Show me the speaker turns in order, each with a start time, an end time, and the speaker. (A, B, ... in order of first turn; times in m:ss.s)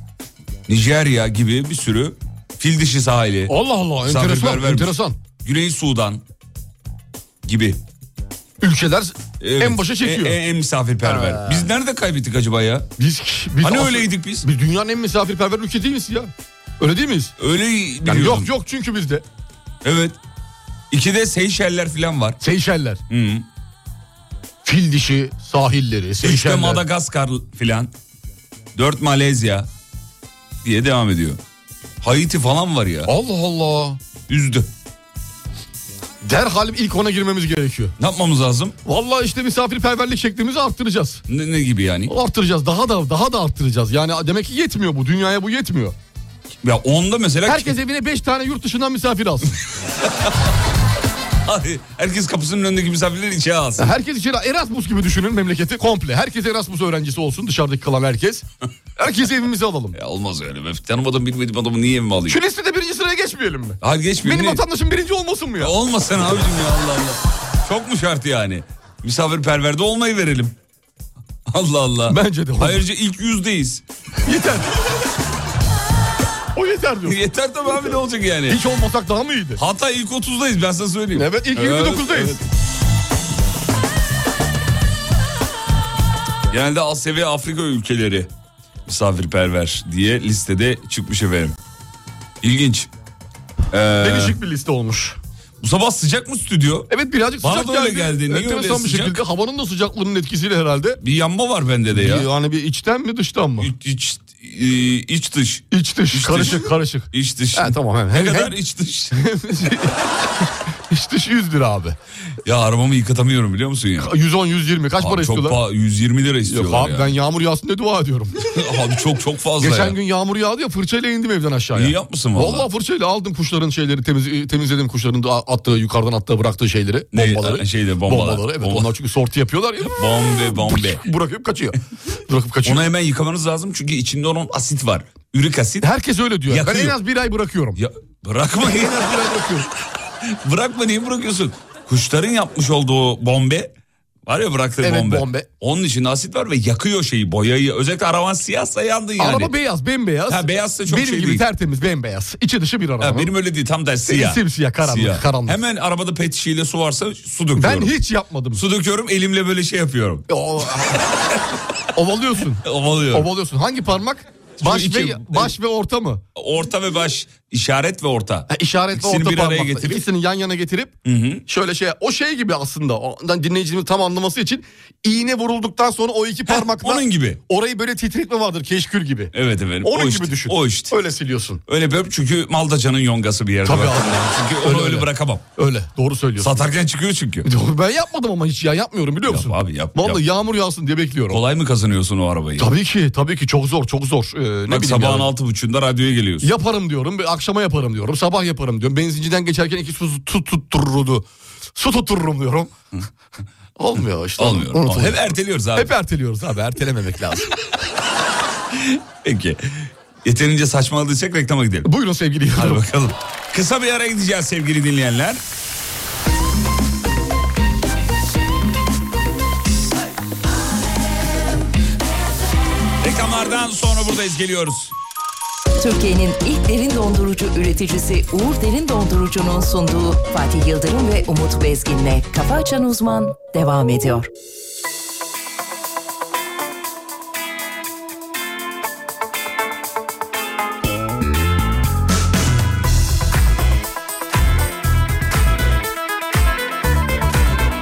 0:00.7-0:06.2 A
0:03.5-0:05.2 B
0:07.4-0:07.8 A
0:08.6-0:10.4 B
0:09.4-0:12.9 A
0:11.0-0:11.7 B
0:13.0-0:17.3 B
0:13.6-0:14.5 A
0:17.4-0:18.5 A
0:18.0-0:19.2 B
0:19.8-0:20.2 A
0:20.9-0:22.4 A
0:22.4-0:23.0 B
0:23.1-0:23.5 A
0:24.6-0:26.8 B
0:26.2-0:27.9 A
0:28.8-0:29.7 A
0:30.6-0:31.4 A
0:32.0-0:33.1 A
0:33.1-0:34.0 B
0:34.3-0:34.7 A
0:36.2-0:37.9 B
0:38.0-0:38.8 A
0:38.9-0:41.2 B
0:41.3-0:42.1 A
0:42.1-0:46.0 B
0:46.6-0:47.8 A
0:47.4-0:49.6 B
0:50.0-0:50.4 A
0:51.4-0:54.0 A
0:53.8-0:58.4 B
0:59.0-1:00.0 B
0:59.9-1:02.4 A
1:02.3-1:05.7 B
1:03.8-1:04.6 A
1:05.6-1:10.6 A
1:11.5-1:13.8 A
1:12.1-1:12.8 B
1:14.2-1:14.8 B
1:16.6-1:17.2 B
1:17.0-1:18.6 A
1:18.5-1:19.6 B
1:19.6-1:22.4 A
1:21.1-1:22.4 B
1:26.5-1:28.3 A
1:28.9-1:31.6 A
1:32.4-1:32.9 A
1:33.7-1:34.4 A
1:34.0-1:35.2 B
1:35.6-1:39.2 A
1:36.9-1:41.0 B
1:41.0-1:42.3 A
1:41.9-1:43.7 B
1:43.6-1:49.2 A
1:45.7-1:48.6 B
1:49.1-1:52.0 B
1:52.4-1:54.1 A
1:54.0-1:55.6 B
1:55.0-1:57.2 A
1:56.5-1:58.6 B
1:58.5-2:00.0 A
1:59.6-2:12.8 B
2:01.7-2:02.7 A
2:07.1-2:08.9 A
2:09.8-2:11.0 A
2:12.6-2:15.9 A
2:15.8-2:17.8 B
2:16.5-2:17.0 A
2:17.8-2:19.5 A
2:18.6-2:19.7 B
2:20.2-2:23.7 A
2:24.3-2:29.5 A
2:24.8-2:25.5 B
2:29.2-2:33.3 B
2:30.3-2:31.5 A
2:33.0-2:37.9 A
2:34.1-2:35.6 B
2:37.6-2:38.6 B
2:38.5-2:41.6 A
2:40.3-2:41.0 B
2:42.0-2:46.2 B
2:42.6-2:43.3 A
2:44.6-2:45.6 A
2:46.4-2:50.1 A
2:48.5-2:51.0 B
2:51.0-2:51.4 A
2:51.5-3:01.6 B
2:56.5-2:57.4 A
2:59.3-3:01.0 A
3:01.7-3:05.5 A
3:03.6-3:06.6 B
3:06.4-3:07.5 A
3:07.4-3:11.4 B
3:09.3-3:10.2 A
3:11.3-3:12.7 A
3:12.6-3:15.3 B
3:14.7-3:16.5 A
3:16.4-3:22.7 B
3:23.8-3:27.6 B
3:24.4-3:25.9 A
3:28.7-3:31.9 A
3:31.8-3:32.8 B
3:32.5-3:35.4 A
3:43.0-3:45.0 A
3:45.8-3:54.3 C